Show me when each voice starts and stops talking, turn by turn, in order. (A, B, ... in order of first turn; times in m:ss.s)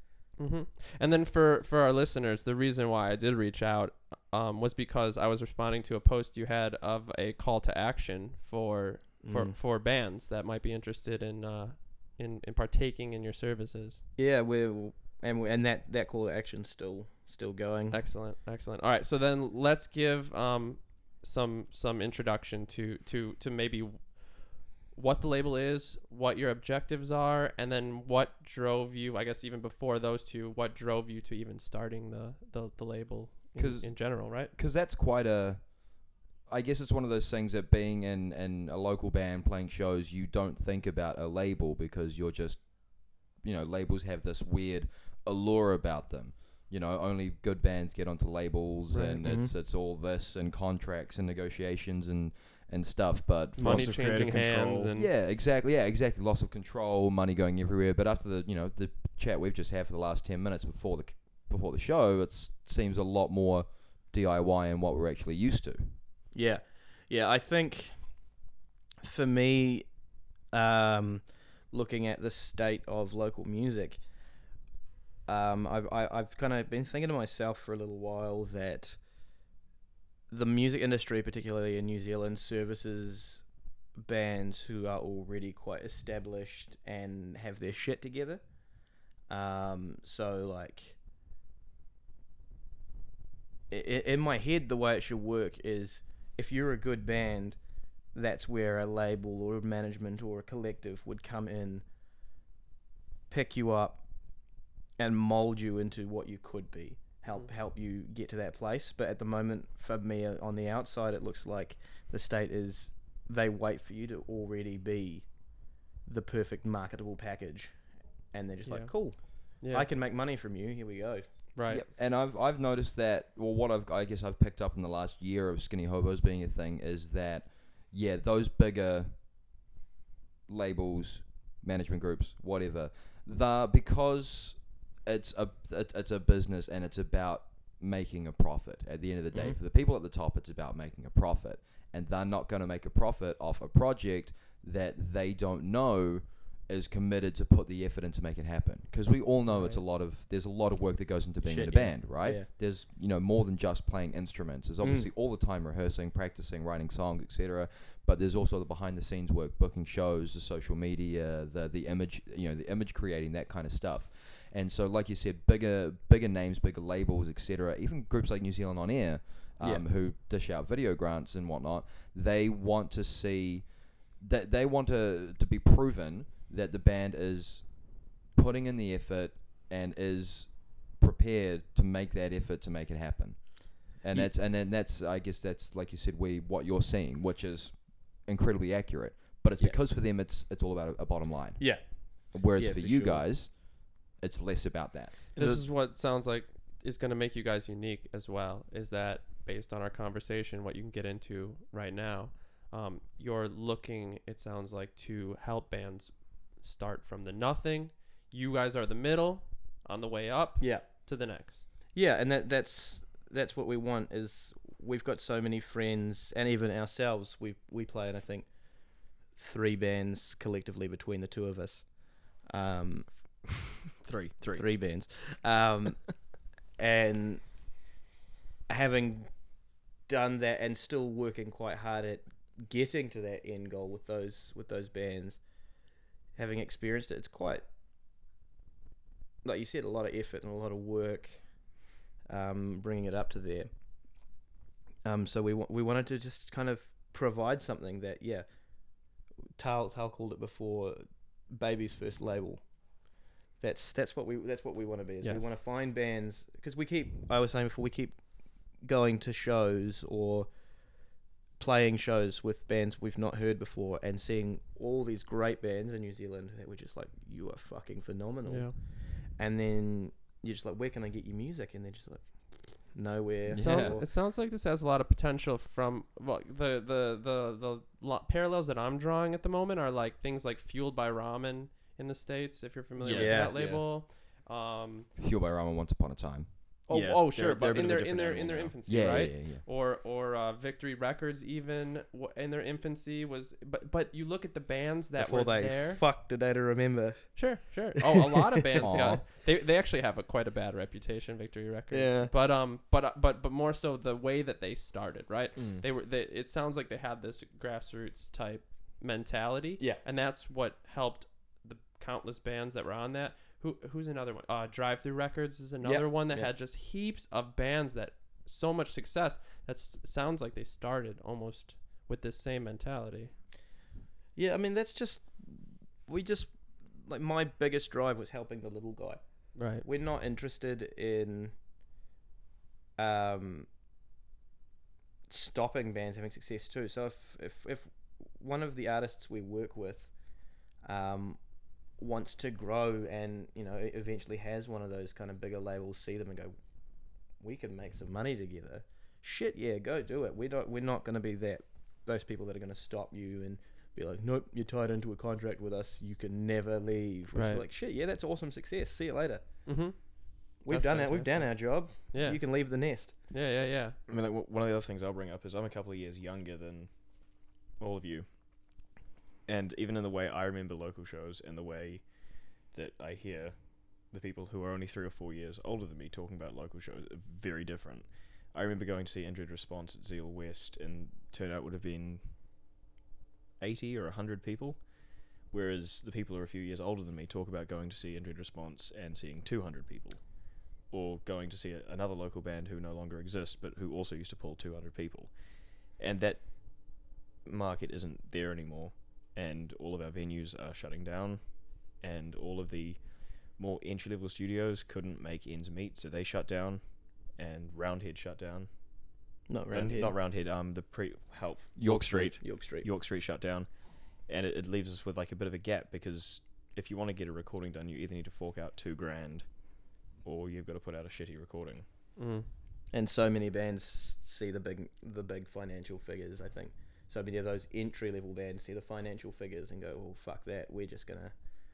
0:00.4-0:14.0 A
0:09.2-0:09.6 B
0:14.2-0:18.0 B
0:17.9-0:34.5 A
0:33.6-0:35.8 C
0:36.5-0:54.0 C
0:48.9-0:49.2 A
0:49.2-0:49.5 B
0:53.6-0:55.1 A
0:53.6-0:54.9 D
0:54.9-1:06.0 C
1:06.3-1:08.3 B
1:09.0-1:10.0 B
1:10.5-1:14.0 B
1:15.3-1:19.0 B
1:20.3-1:23.5 B
1:24.0-1:28.4 B
1:29.3-1:31.0 B
1:33.7-1:37.6 B
1:38.1-1:41.8 B
1:43.3-1:44.0 B
1:45.0-1:55.4 B
1:56.0-2:01.3 B
1:58.6-1:59.9 A
2:01.6-2:01.8 A
2:01.7-2:09.2 C
2:10.5-3:15.2 C
2:19.3-2:19.6 D
2:29.5-2:29.8 B
2:31.4-2:32.5 B
2:34.8-2:35.1 B
3:11.6-3:13.2 B
3:15.4-3:15.7 D
3:15.4-3:31.7 A
3:30.6-3:30.9 B
3:31.9-3:38.5 B
3:39.3-3:43.1 B
3:44.0-3:44.6 D
3:44.6-3:46.2 B
3:46.8-3:47.4 B
3:48.7-3:49.3 B
3:50.1-3:55.4 B
3:56.4-3:57.6 B
3:59.4-4:03.7 B
4:05.0-4:08.5 B
4:09.6-4:12.7 B
4:13.6-4:18.2 B
4:15.2-4:15.5 A
4:18.8-4:20.5 B
4:21.6-4:28.8 B
4:28.5-4:28.7 A
4:29.3-4:34.1 B
4:33.6-4:45.1 A
4:33.6-4:34.0 C
4:43.0-4:43.8 D
4:43.1-4:43.5 B
4:45.2-4:46.5 C
4:46.9-4:48.7 D
4:46.9-4:56.0 A
4:48.9-4:49.6 C
4:55.2-4:59.0 B
4:57.4-5:23.3 A
4:58.8-4:59.2 C
5:01.9-5:02.3 B
5:05.6-5:05.8 D
5:15.8-5:16.5 B
5:24.4-5:31.6 B
5:29.6-5:29.8 A
5:33.0-5:33.7 B
5:35.3-5:40.1 B
5:40.8-5:41.4 B
5:42.0-5:46.5 B
5:47.4-5:59.7 B
5:57.4-5:57.6 A
5:59.7-6:04.0 A
6:00.6-6:03.1 B
6:04.1-6:08.9 D
6:09.5-6:22.2 D
6:23.6-6:48.7 D
6:49.5-6:50.2 B
6:49.7-7:01.8 D
6:51.8-6:52.4 C
6:52.4-6:52.9 B
7:02.2-7:02.5 A
7:02.9-7:11.3 B